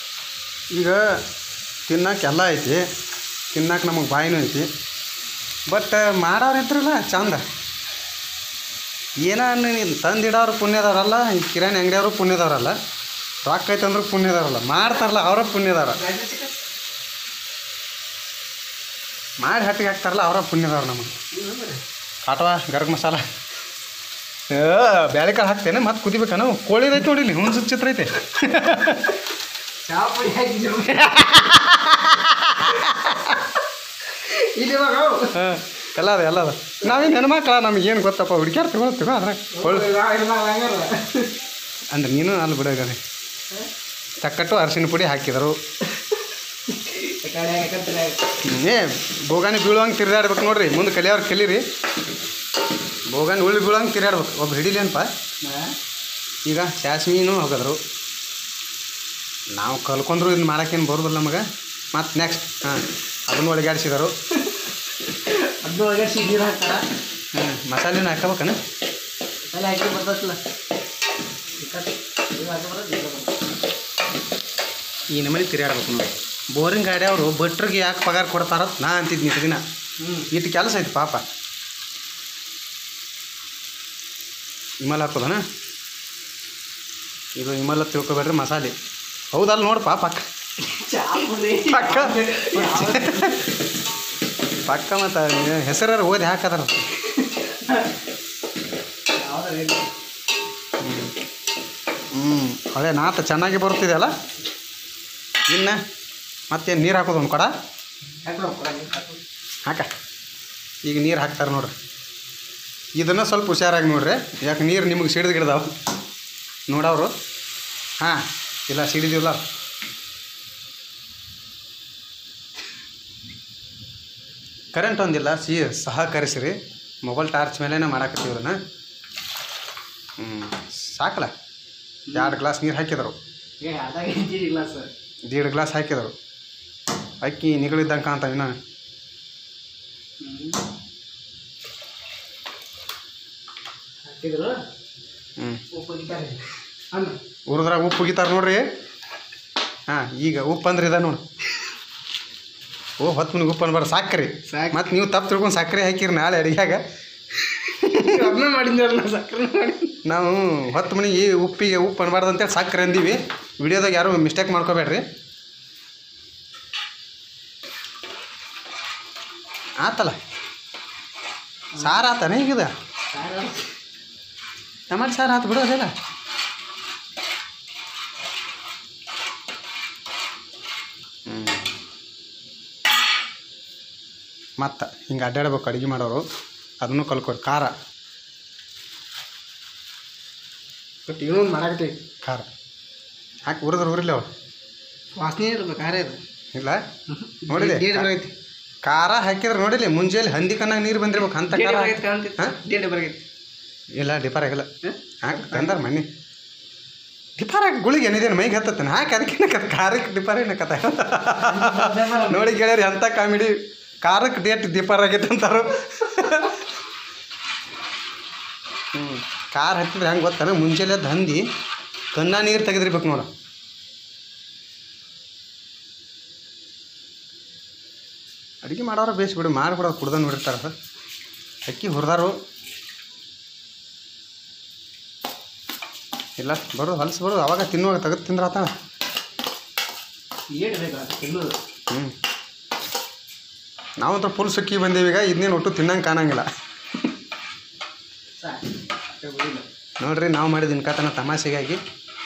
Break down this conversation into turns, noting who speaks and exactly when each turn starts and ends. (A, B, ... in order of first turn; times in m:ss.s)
0:00.7-0:01.0 A
0:01.9-0:02.8 A
0:03.5-0:04.7 A
0:05.7-0:07.4 A
0:09.2-0:12.8 A
0:13.4-0:16.0 A
0:15.9-0:16.5 B
0:19.4-0:21.1 A
0:21.3-0:21.8 B
0:22.2-0:23.2 A
0:24.5-0:29.1 A
0:29.8-0:31.4 B
0:31.0-0:33.3 A
0:34.1-0:35.4 B
0:35.3-0:39.9 A
0:39.5-0:41.4 B
0:41.9-0:43.0 A
0:44.2-0:45.6 A
0:46.7-0:48.2 B
0:48.4-0:51.6 A
0:53.1-0:55.1 A
0:55.4-0:55.7 B
0:56.4-0:57.8 A
0:59.6-1:04.1 A
1:05.0-1:06.8 B
1:07.3-1:08.6 A
1:09.5-1:10.4 B
1:11.6-1:13.4 B
1:15.1-1:19.6 A
1:20.0-1:20.3 B
1:20.3-1:21.2 A
1:24.8-1:25.4 A
1:27.4-1:28.7 A
1:29.3-1:30.2 A
1:30.6-1:33.4 B
1:31.7-1:33.4 A
1:34.6-1:36.8 A
1:37.0-1:37.9 B
1:39.1-1:39.9 B
1:40.8-1:41.1 A
1:42.1-1:44.1 A
1:45.5-1:45.8 A
1:46.5-1:47.5 A
1:48.2-1:49.2 B
1:50.8-1:51.7 A
1:53.0-1:55.7 A
1:56.7-1:57.1 A
1:58.0-1:59.4 A
2:04.7-2:08.6 A
2:10.2-2:11.3 A
2:12.1-2:12.4 B
2:12.1-2:13.1 A
2:13.6-2:14.9 B
2:15.3-2:16.1 A
2:17.2-2:18.5 A
2:20.2-2:20.6 B
2:24.0-2:24.6 B
2:25.4-2:25.6 A
2:25.7-2:27.2 B
2:27.5-2:28.6 A
2:29.9-2:31.2 A
2:33.0-2:36.8 A
2:34.5-2:34.9 B
2:37.4-2:40.0 B
2:40.0-2:45.0 A
2:49.8-2:50.2 A
2:51.8-2:52.7 A
2:53.1-2:53.7 B
2:54.9-2:55.9 A
3:01.3-3:01.6 A
3:04.6-3:06.2 A
3:06.8-3:07.7 A
3:11.1-3:12.0 B
3:13.5-3:14.2 A
3:15.2-3:16.2 B
3:16.5-3:16.8 A
3:17.1-3:18.3 B
3:17.5-3:18.1 A
3:18.8-3:22.5 A
3:21.3-3:23.2 B
3:24.0-3:24.7 A
3:24.8-3:25.8 B
3:25.2-3:26.1 A
3:27.4-3:36.6 A
3:31.4-3:32.6 B
3:38.9-3:41.4 A
3:42.1-3:43.3 A
3:48.6-3:50.7 A
3:51.6-3:52.3 A
3:56.4-3:58.7 A
4:00.5-4:01.6 B
4:01.9-4:02.1 A
4:04.0-4:06.4 A
4:08.4-4:09.6 B
4:10.0-4:11.8 A